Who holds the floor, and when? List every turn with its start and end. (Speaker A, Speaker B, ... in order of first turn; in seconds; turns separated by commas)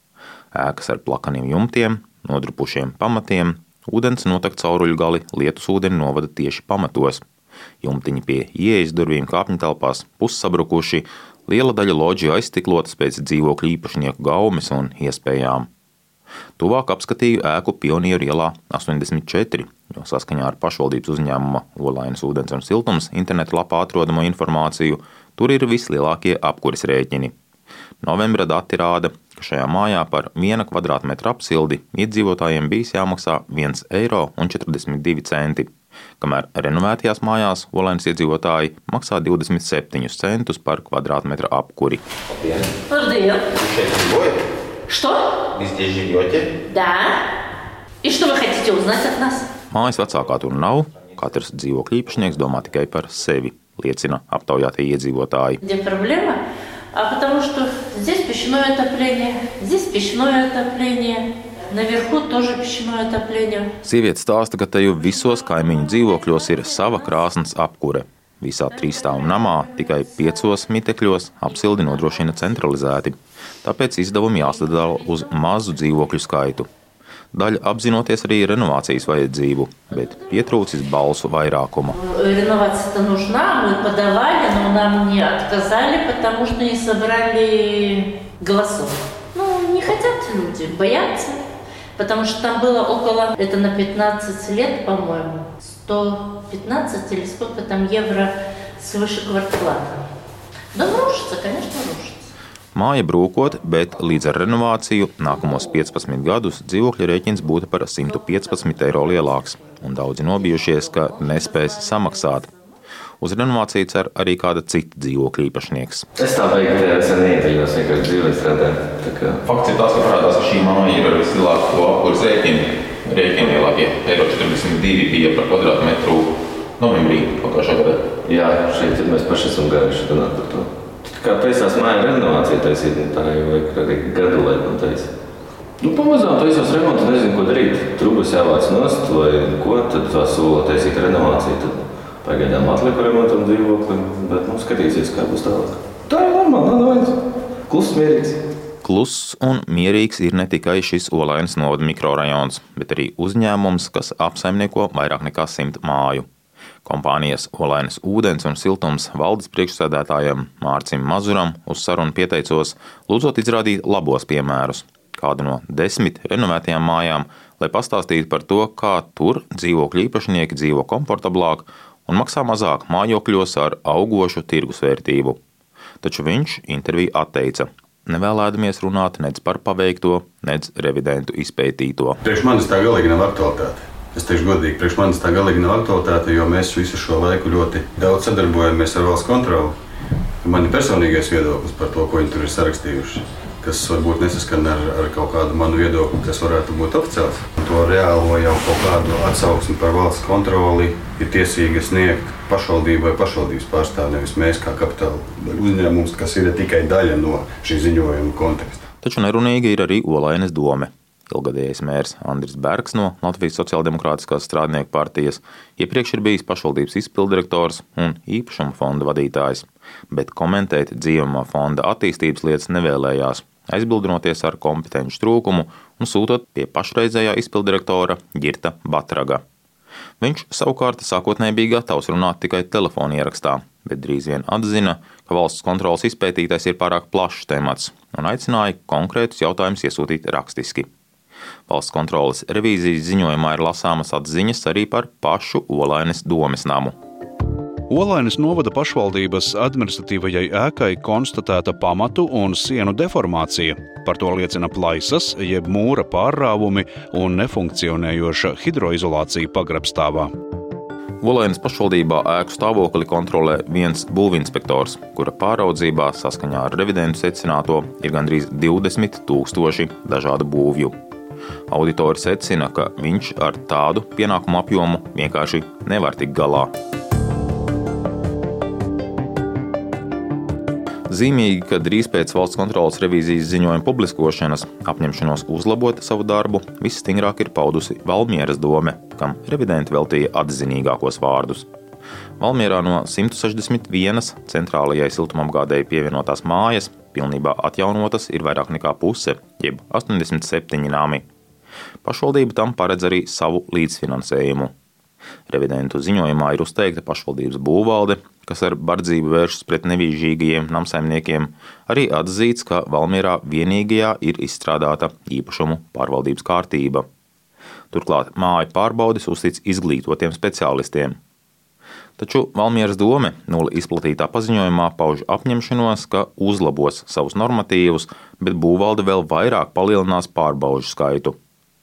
Speaker A: 0.6-7.2, Speaker A: 7.8-15.7, Speaker A: 16.6-27.3, Speaker A: 28.0-35.7, Speaker A: 36.2-42.7, Speaker B: 42.9-43.4, Speaker A: 43.5-44.4, Speaker B: 44.9-45.2, Speaker A: 45.5-46.5, Speaker B: 46.7-47.0, Speaker B: 48.0-49.4, Speaker A: 49.7-55.6, Speaker B: 55.6-56.4, Speaker B: 56.9-61.2, Speaker B: 61.7-63.6, Speaker A: 63.8-76.7, Speaker A: 77.3-82.0, Speaker B: 81.9-91.3, Speaker B: 92.0-98.3, Speaker B: 98.8-100.0, Speaker B: 100.8-102.2, Speaker A: 102.8-112.5, Speaker B: 108.3-112.5, Speaker A: 113.2-116.0, Speaker C: 116.2-119.4, Speaker A: 119.5-128.1, Speaker C: 128.2-135.1, Speaker C: 135.8-148.4, Speaker A: 148.8-156.2, Speaker A: 156.8-175.4, Speaker A: 176.0-182.2, Speaker D: 182.2-189.8, Speaker D: 190.4-208.8, Speaker A: 209.0-229.4, Speaker A: 230.2-240.9, Speaker A: 241.7-246.9, Speaker E: 247.9-260.3, Speaker A: 261.2-270.9, Speaker A: 271.7-276.7, Speaker A: 281.1-291.7, Speaker A: 292.4-301.2, Speaker A: 302.1-304.7, Speaker A: 305.5-317.1, Speaker A: 317.9-321.2, Speaker A: 322.2-331.4